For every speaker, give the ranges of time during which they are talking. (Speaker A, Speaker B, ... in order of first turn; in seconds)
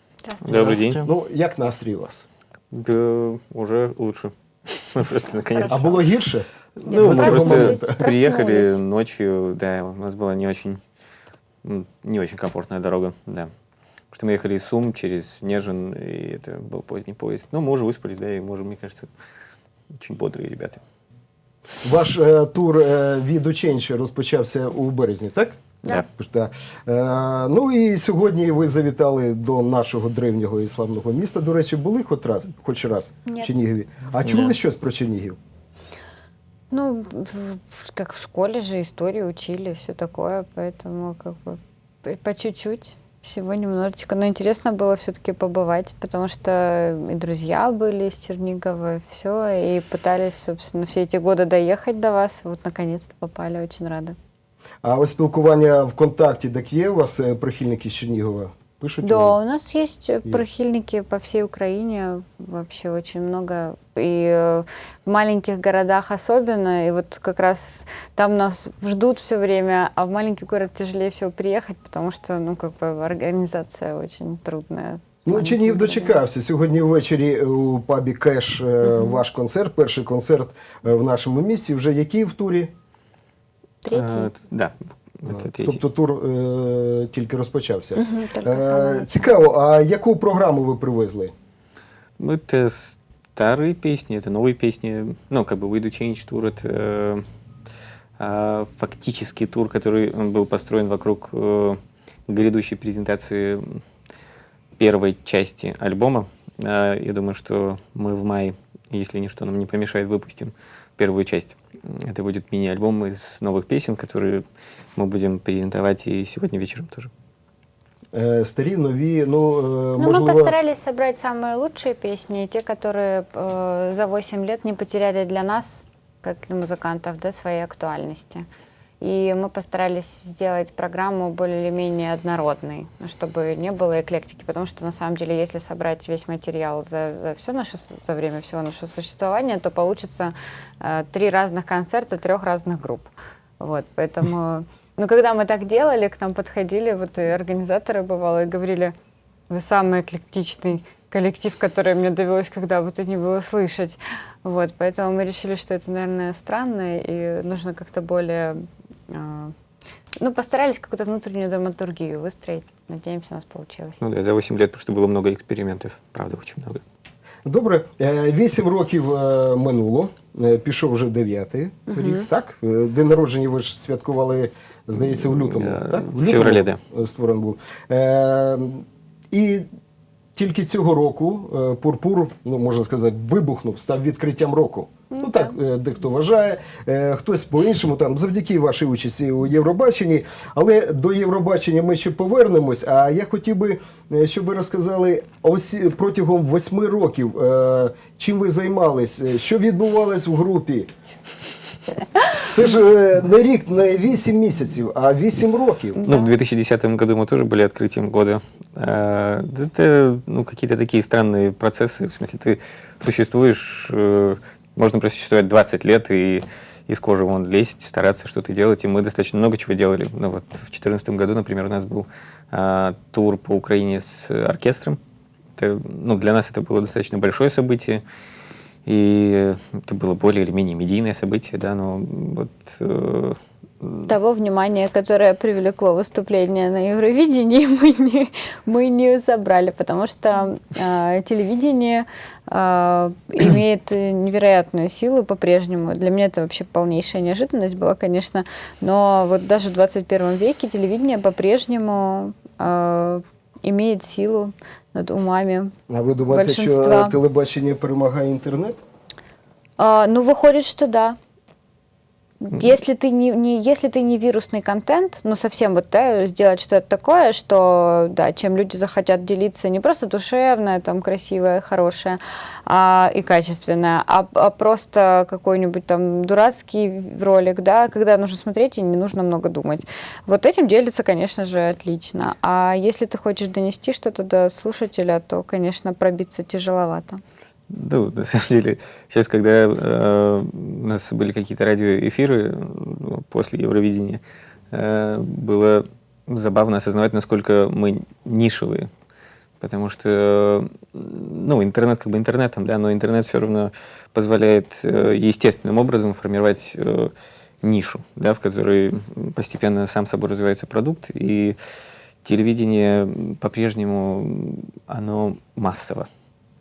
Speaker A: 0.2-0.7, 6.9-8.8, 33.3-33.5, 36.7-54.1, 59.0-76.2, 78.9-79.2, 83.8-84.3, 88.0-89.3, 120.0-128.4, 129.0-148.9, 149.5-158.6, 159.1-159.5, 160.2-164.0, 171.9-172.3, 185.1-185.5, 206.0-206.3, 234.1-255.7, 256.3-257.2, 259.8-261.2, 262.4-287.2
Speaker B: 0.4-1.1, 2.7-6.0, 6.8-10.8, 11.6-13.5, 14.1-19.1, 19.9-20.8, 34.2-34.5, 83.9-85.8, 92.2-97.2, 98.2-103.8, 104.8-114.4, 115.0-117.1, 164.0-166.8, 175.0-176.8, 206.0-225.0, 225.6-228.0, 228.8-234.1, 287.7-298.9, 299.6-307.1, 307.6-311.6, 312.2-316.1
Speaker C: 0.5-2.2, 5.7-8.0, 21.8-35.4, 54.8-59.4, 75.2-82.7, 85.3-91.3, 118.1-120.5, 167.4-179.7, 180.3-200.9, 202.4-206.0, 255.9-258.8